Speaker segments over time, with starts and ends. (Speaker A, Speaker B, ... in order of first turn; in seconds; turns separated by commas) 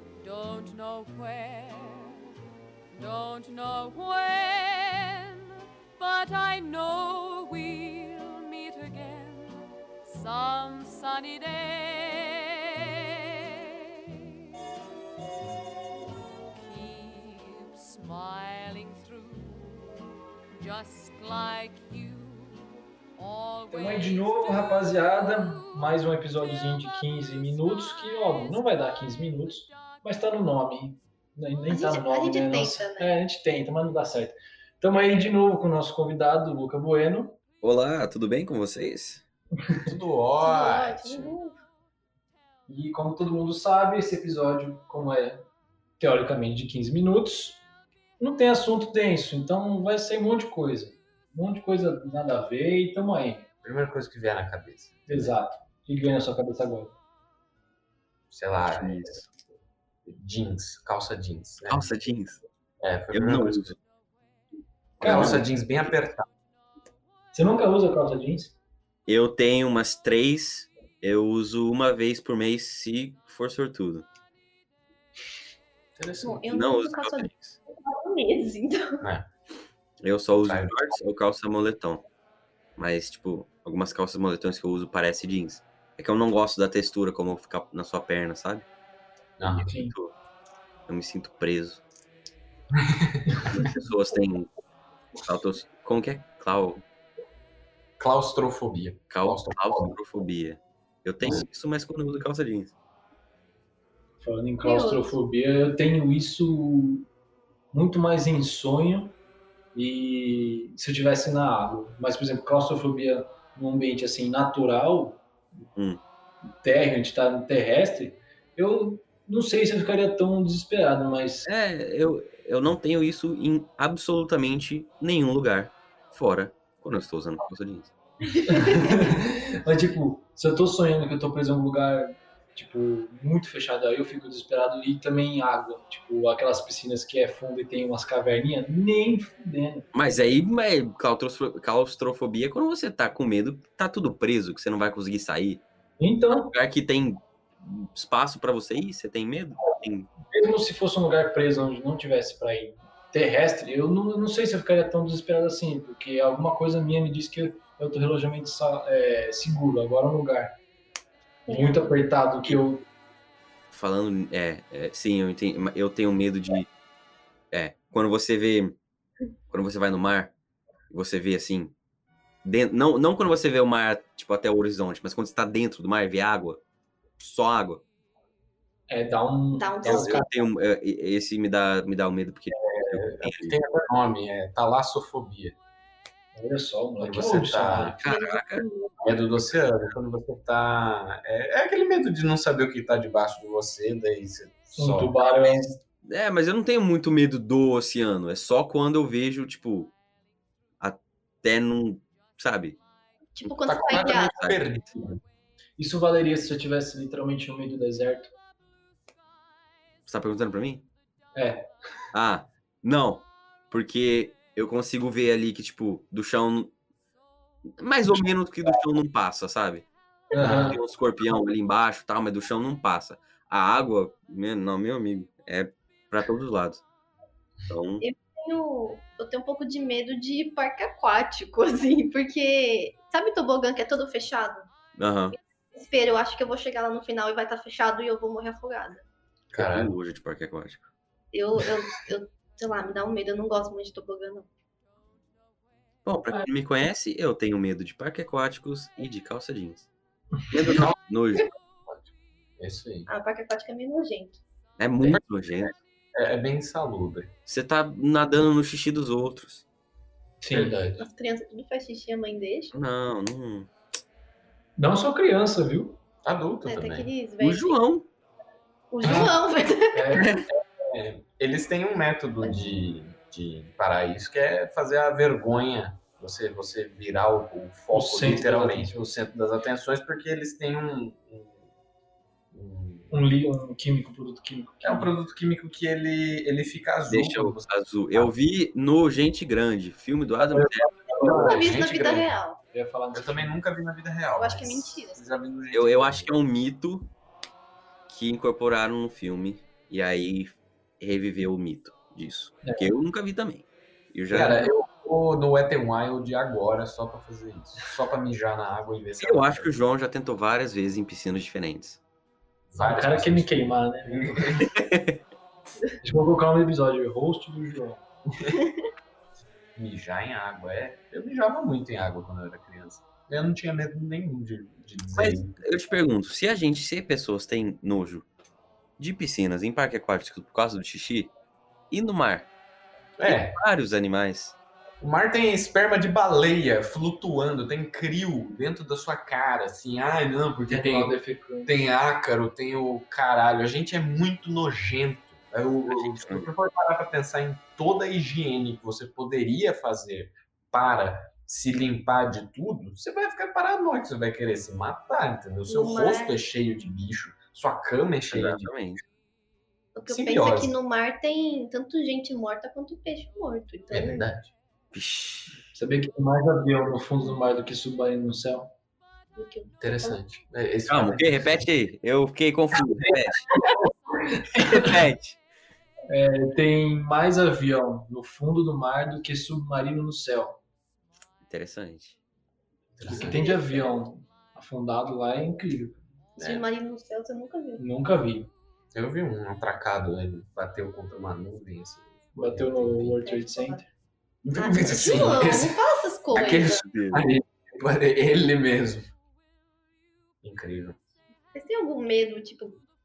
Speaker A: 0.2-2.3, Speaker A: 2.9-14.5, Speaker A: 16.5-20.0, Speaker A: 20.6-26.1, Speaker B: 23.7-37.4, Speaker A: 27.3-28.4, Speaker C: 31.7-33.1, Speaker D: 37.6-39.2, Speaker E: 39.8-41.3, Speaker C: 40.4-41.6, Speaker B: 42.7-45.5, Speaker B: 46.0-47.6, Speaker B: 48.2-53.5, Speaker E: 53.6-55.3, Speaker B: 55.1-56.9, Speaker E: 58.3-59.2, Speaker D: 58.6-59.2, Speaker E: 60.0-61.9, Speaker D: 61.7-62.4, Speaker E: 62.8-63.7, Speaker D: 63.1-63.8, Speaker B: 65.0-65.4, Speaker D: 65.0-65.4, Speaker E: 65.0-66.2, Speaker B: 67.3-68.5, Speaker D: 69.1-74.0, Speaker E: 76.0-76.5, Speaker C: 76.2-79.0, Speaker D: 76.5-77.6, Speaker E: 79.0-79.3, Speaker D: 80.0-82.0, Speaker E: 80.3-80.8, Speaker D: 82.8-88.6, Speaker E: 89.4-89.7, Speaker B: 89.5-89.9, Speaker D: 89.6-90.1, Speaker D: 90.9-91.8, Speaker E: 92.9-93.6, Speaker D: 93.6-94.5, Speaker D: 95.2-96.8, Speaker E: 98.0-99.9, Speaker D: 99.1-102.7, Speaker B: 104.2-107.1, Speaker C: 104.6-105.2, Speaker B: 107.7-109.2, Speaker B: 109.7-115.2, Speaker D: 115.8-116.0, Speaker B: 116.5-121.5, Speaker D: 121.5-127.9, Speaker B: 128.4-139.9, Speaker C: 128.5-128.8, Speaker D: 139.9-145.6, Speaker B: 146.0-146.5, Speaker D: 146.3-150.1, Speaker B: 150.3-160.6, Speaker C: 161.5-161.9, Speaker B: 161.5-162.8, Speaker D: 163.7-166.7, Speaker D: 167.5-168.8, Speaker D: 169.5-170.3, Speaker D: 170.9-171.7, Speaker D: 172.4-176.6, Speaker D: 177.2-177.8, Speaker B: 178.9-180.3, Speaker C: 179.5-180.3, Speaker D: 179.8-183.6, Speaker E: 182.6-185.6, Speaker B: 186.3-188.0, Speaker E: 187.0-187.9, Speaker D: 188.0-188.6, Speaker C: 188.0-189.0, Speaker E: 189.0-195.2, Speaker B: 194.8-195.8, Speaker D: 195.2-199.9, Speaker D: 200.8-202.8, Speaker C: 203.3-204.3, Speaker D: 203.4-204.7, Speaker E: 203.7-205.2, Speaker B: 205.8-208.3, Speaker D: 210.1-210.9, Speaker B: 211.3-211.7, Speaker D: 212.1-216.7, Speaker D: 217.8-226.8, Speaker B: 220.3-220.8, Speaker E: 220.4-220.7, Speaker D: 227.7-228.0, Speaker C: 228.0-234.7, Speaker D: 235.0-235.4, Speaker C: 235.7-239.0, Speaker E: 239.5-239.9, Speaker D: 239.6-240.9, Speaker C: 241.3-244.5, Speaker D: 246.1-249.9, Speaker D: 250.5-251.5, Speaker E: 250.7-250.9, Speaker E: 251.9-253.1, Speaker C: 253.1-254.4, Speaker D: 254.8-255.8, Speaker E: 256.1-257.3, Speaker D: 257.4-259.6, Speaker B: 260.4-260.8, Speaker E: 260.5-261.0, Speaker C: 261.0-262.7, Speaker D: 262.7-263.7, Speaker B: 264.8-266.0, Speaker E: 266.2-267.1, Speaker C: 266.6-267.8, Speaker D: 267.4-268.1, Speaker C: 268.9-270.2, Speaker E: 269.0-269.4, Speaker B: 269.9-270.2, Speaker D: 270.1-270.4, Speaker E: 270.9-281.6, Speaker B: 277.9-279.1, Speaker E: 282.5-283.2, Speaker B: 283.1-285.1, Speaker E: 284.8-288.3, Speaker D: 287.1-291.2, Speaker B: 290.5-291.6, Speaker E: 291.2-292.4, Speaker C: 291.4-292.6, Speaker B: 292.7-293.5, Speaker E: 293.1-296.3, Speaker C: 294.4-295.5, Speaker D: 295.7-297.1, Speaker D: 298.1-304.6, Speaker B: 302.6-302.9, Speaker E: 304.3-309.7, Speaker D: 309.2-312.0, Speaker E: 312.7-314.7, Speaker B: 312.8-314.6, Speaker D: 314.8-315.2, Speaker B: 316.0-318.0, Speaker E: 319.8-325.6, Speaker D: 325.1-328.3, Speaker D: 329.0-331.3, Speaker D: 331.9-332.5, Speaker E: 333.2-333.6, Speaker D: 333.2-334.6, Speaker E: 335.0-341.1, Speaker B: 340.7-341.7, Speaker E: 341.6-358.7, Speaker D: 345.9-346.5, Speaker C: 355.6-356.4, Speaker D: 358.3-359.0, Speaker C: 359.9-364.3, Speaker E: 360.1-360.8, Speaker E: 363.9-364.5, Speaker D: 364.9-365.6, Speaker B: 365.7-368.7, Speaker C: 369.4-370.2, Speaker E: 369.8-371.3, Speaker D: 370.9-373.5, Speaker B: 374.3-374.7, Speaker D: 374.5-375.4, Speaker B: 376.1-380.6, Speaker D: 381.4-382.2, Speaker E: 382.9-383.4, Speaker B: 383.0-386.0, Speaker C: 383.2-384.1, Speaker E: 386.4-386.6, Speaker C: 386.4-387.8, Speaker B: 387.8-388.5, Speaker E: 388.9-393.2, Speaker B: 392.3-393.8, Speaker C: 393.2-393.8, Speaker E: 394.4-395.8, Speaker C: 394.5-396.8, Speaker E: 396.3-399.1, Speaker D: 396.7-397.2, Speaker E: 400.4-401.0, Speaker C: 401.5-402.8